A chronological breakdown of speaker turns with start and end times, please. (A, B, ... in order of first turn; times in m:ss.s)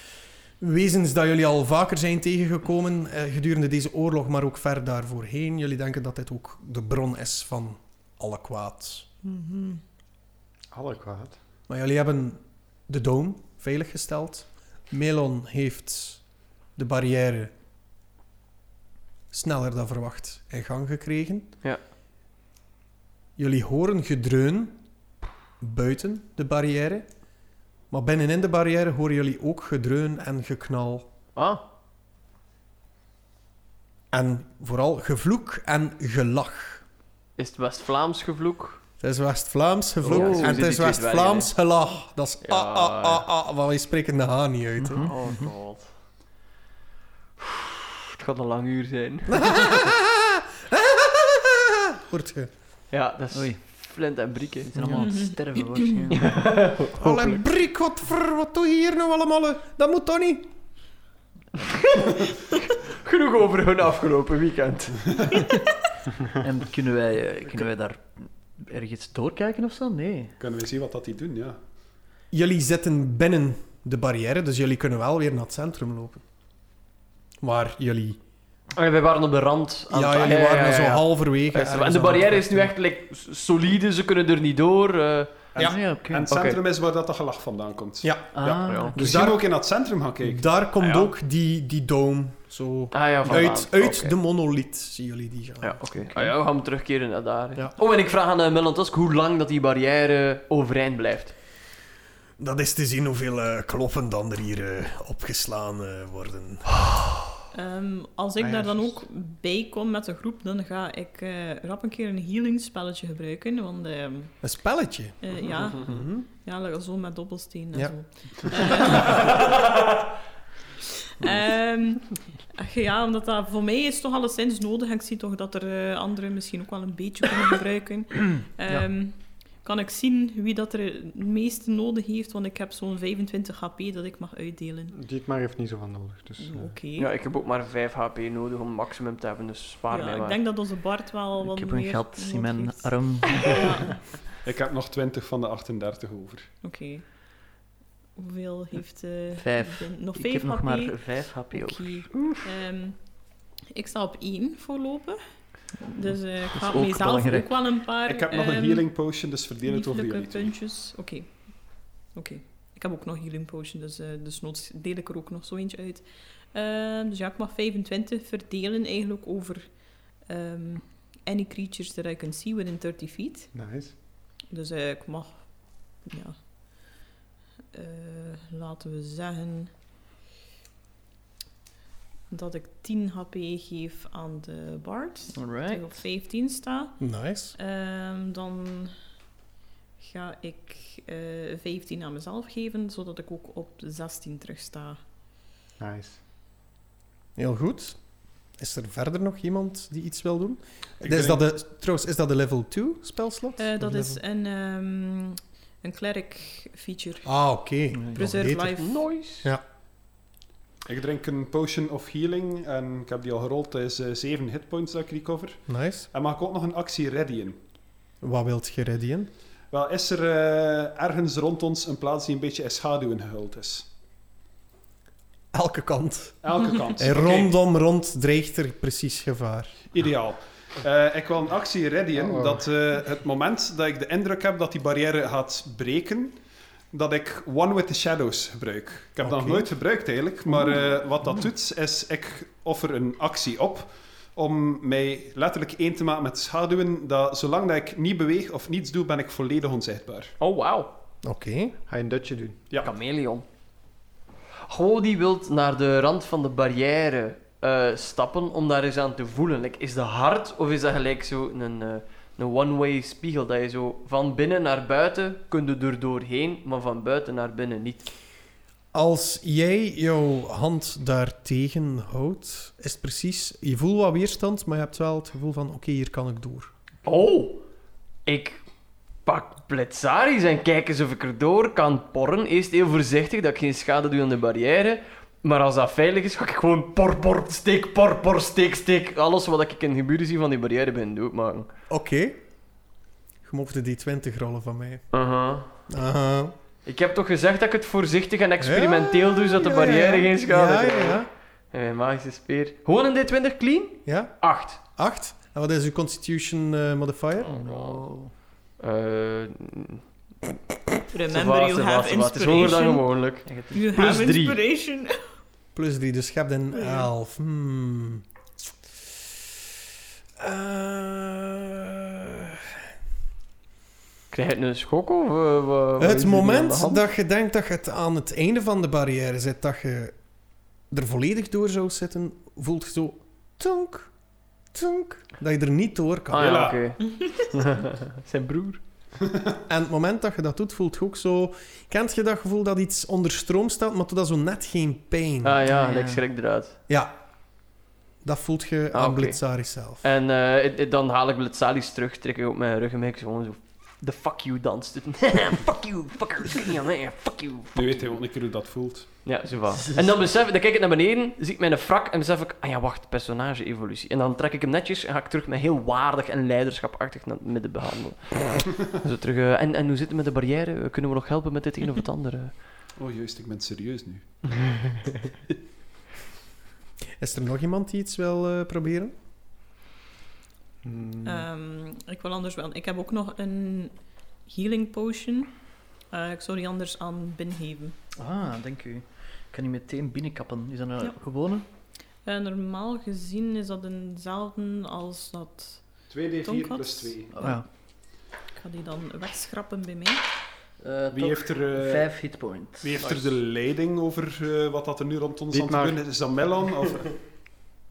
0:00.6-0:09.1 A
0:09.2-0:09.8 B
0:10.7-0:11.4 C
0:11.7-0:16.2 A
0:16.8-0:17.5 A
0:19.3-0:21.5 A
0:23.4-0:24.8 A
0:25.6-0:27.1 A
0:27.9-0:31.1 A
0:31.4-0:31.6 D
0:34.1-0:36.8 A
0:37.4-0:38.8 D
0:39.0-0:45.1 A
0:40.0-0:41.5 D
0:40.1-0:40.6 E
0:42.4-0:43.2 D
0:44.8-0:45.5 E
0:45.0-0:45.9 D
0:47.4-0:49.5 D
0:49.3-0:52.5 A
0:52.9-0:55.1 D
0:53.3-0:53.6 E
0:54.7-0:56.4 E
0:55.0-0:56.0 B
0:56.1-0:57.4 D
0:57.0-1:00.5 A
1:01.8-1:02.2 D
1:02.8-1:05.4 D
1:06.4-1:10.3 E
1:10.4-1:11.6 F
1:12.3-1:16.2 A
1:17.4-1:18.2 A
1:18.7-1:25.5 D
1:19.9-1:22.7 A
1:25.5-1:30.4 F
1:25.6-1:26.3 E
1:26.3-1:26.6 D
1:28.0-1:28.4 A
1:28.3-1:29.2 E
1:28.6-1:29.0 D
1:28.9-1:29.5 A
1:30.2-1:35.8 A
1:30.8-1:31.1 D
1:32.9-1:34.1 D
1:35.6-1:41.3 D
1:36.1-1:36.4 E
1:42.4-1:47.1 A
1:47.5-1:54.3 B
1:54.4-1:56.3 A
1:55.2-1:59.5 B
2:01.2-2:14.9 B
2:14.9-2:16.7 C
2:16.4-2:17.1 B
2:17.0-2:20.4 D
2:19.9-2:24.0 B
2:21.4-2:23.6 E
2:24.4-2:26.5 F
2:26.6-2:27.0 B
2:28.2-2:35.2 B
2:29.3-2:32.1 E
2:35.8-2:38.8 B
2:36.1-2:37.7 E
2:38.0-2:40.5 F
2:39.6-2:53.5 B
2:53.5-2:53.9 C
2:54.5-2:56.9 B
2:57.7-2:59.7 B
3:02.3-3:07.0 B
3:05.3-3:06.0 E
3:07.0-3:07.6 A
3:07.5-3:08.9 B
3:10.0-3:15.0 B
3:15.8-3:16.2 C
3:17.4-3:18.0 A
3:18.6-3:24.2 A
3:21.0-3:21.4 F
3:23.6-3:27.3 B
3:27.2-3:28.8 A
3:27.9-3:28.2 E
3:28.1-3:29.0 B
3:28.8-3:29.5 D
3:29.4-3:29.6 A
3:30.8-3:37.6 F
3:35.7-3:36.1 A
3:38.2-3:39.3 A
3:39.7-3:43.9 F
3:45.5-3:49.7 A
3:46.4-3:47.6 F
3:49.9-3:56.4 F
3:52.2-3:52.6 C
3:56.9-4:10.3 F
3:59.2-3:59.7 A
4:10.4-4:10.9 D
4:11.2-4:11.8 A
4:11.9-4:12.6 C
4:12.8-4:13.4 D
4:14.7-4:28.1 D
4:28.9-4:36.7 A
4:37.0-4:37.6 D
4:38.2-4:38.6 D
4:39.2-4:51.7 D
4:51.9-4:52.4 A
4:53.4-4:55.0 A
4:55.1-4:55.7 D
4:55.9-4:56.5 A
4:56.8-5:04.8 D
4:58.6-5:01.3 A
5:04.0-5:04.3 A
5:04.9-5:07.5 A
5:07.4-5:08.1 D
5:07.5-5:08.3 E
5:08.8-5:10.0 D
5:11.1-5:13.0 B
5:11.3-5:14.6 D
5:13.4-5:14.2 E
5:13.7-5:15.2 B
5:15.7-5:18.2 A
5:16.7-5:17.0 B
5:20.4-5:22.7 A
5:24.3-5:27.0 D
5:26.0-5:30.1 A
5:30.9-5:34.1 A
5:34.7-5:36.6 A
5:36.3-5:38.8 D
5:36.3-5:36.8 F
5:39.7-5:45.6 A
5:45.4-5:46.8 D
5:45.6-5:46.2 E
5:46.9-5:47.1 A
5:48.2-5:50.0 A
5:48.9-5:49.4 D
5:50.0-5:58.2 D
5:57.7-5:59.2 F
5:59.2-6:12.6 D
6:13.0-6:14.2 F
6:17.2-6:19.1 A
6:20.8-6:21.5 C
6:21.2-6:23.9 B
6:24.4-6:25.5 B
6:26.1-6:28.0 B
6:28.2-6:31.6 E
6:32.2-6:35.8 B
6:36.1-6:37.3 F
6:36.4-6:37.6 B
6:37.3-6:37.6 E
6:38.5-6:40.2 B
6:40.8-6:43.0 E
6:41.1-6:42.1 F
6:42.8-6:47.2 F
6:45.5-6:46.0 C